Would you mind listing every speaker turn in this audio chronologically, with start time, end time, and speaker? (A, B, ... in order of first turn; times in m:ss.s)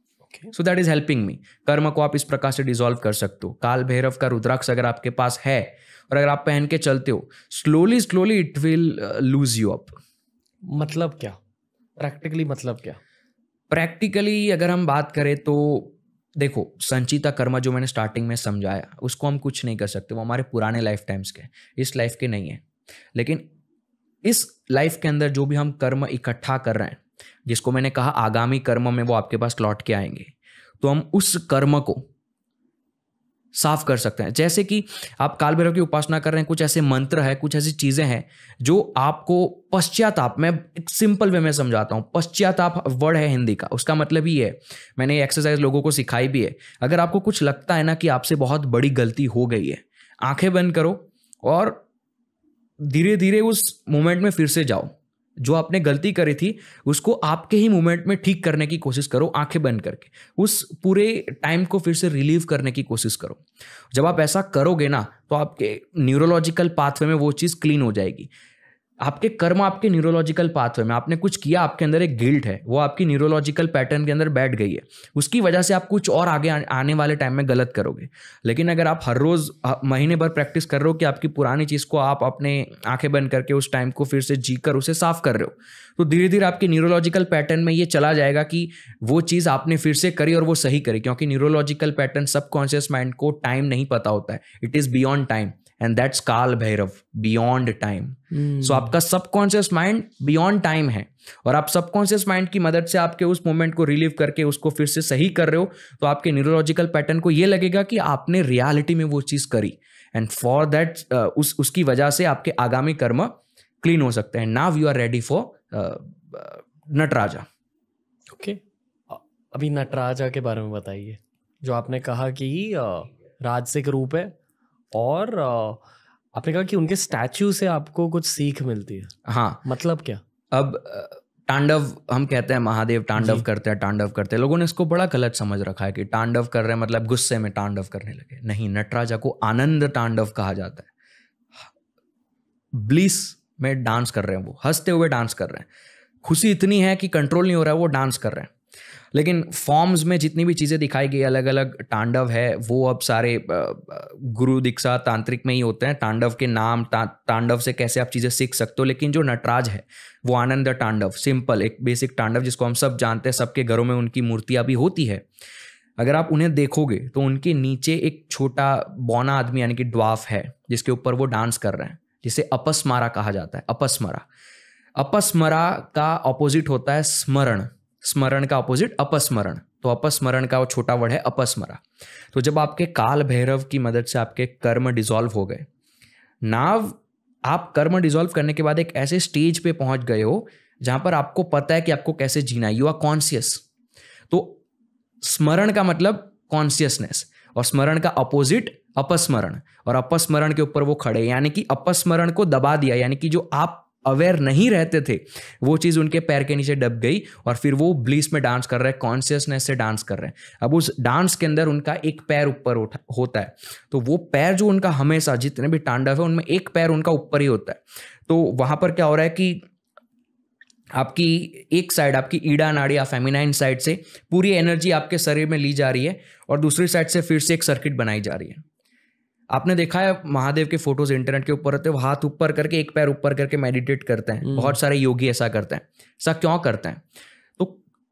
0:00.5-0:10.0 A
0:10.7-0:11.4 B
0:12.0-0:13.0 B
0:13.7-0:22.6 A
0:23.2-0:23.4 A
0:24.2-0:32.1 A
0:33.6-0:51.8 A
0:52.8-1:08.3 A
1:09.0-1:57.4 A
1:38.3-1:38.9 B
1:58.3-2:04.4 B
2:04.9-2:05.8 B
2:06.3-2:09.1 B
2:09.3-2:09.6 A
2:09.6-2:10.2 B
2:10.5-2:20.9 A
2:13.2-2:13.5 B
2:22.7-2:25.7 A
2:26.2-2:28.5 A
2:29.1-2:45.3 A
2:46.0-2:54.2 A
2:55.0-3:05.7 A
3:06.4-3:13.6 A
3:14.3-3:14.6 A
3:15.2-3:39.6 A
3:41.0-3:48.6 A
3:49.5-3:57.0 A
3:54.5-3:54.8 B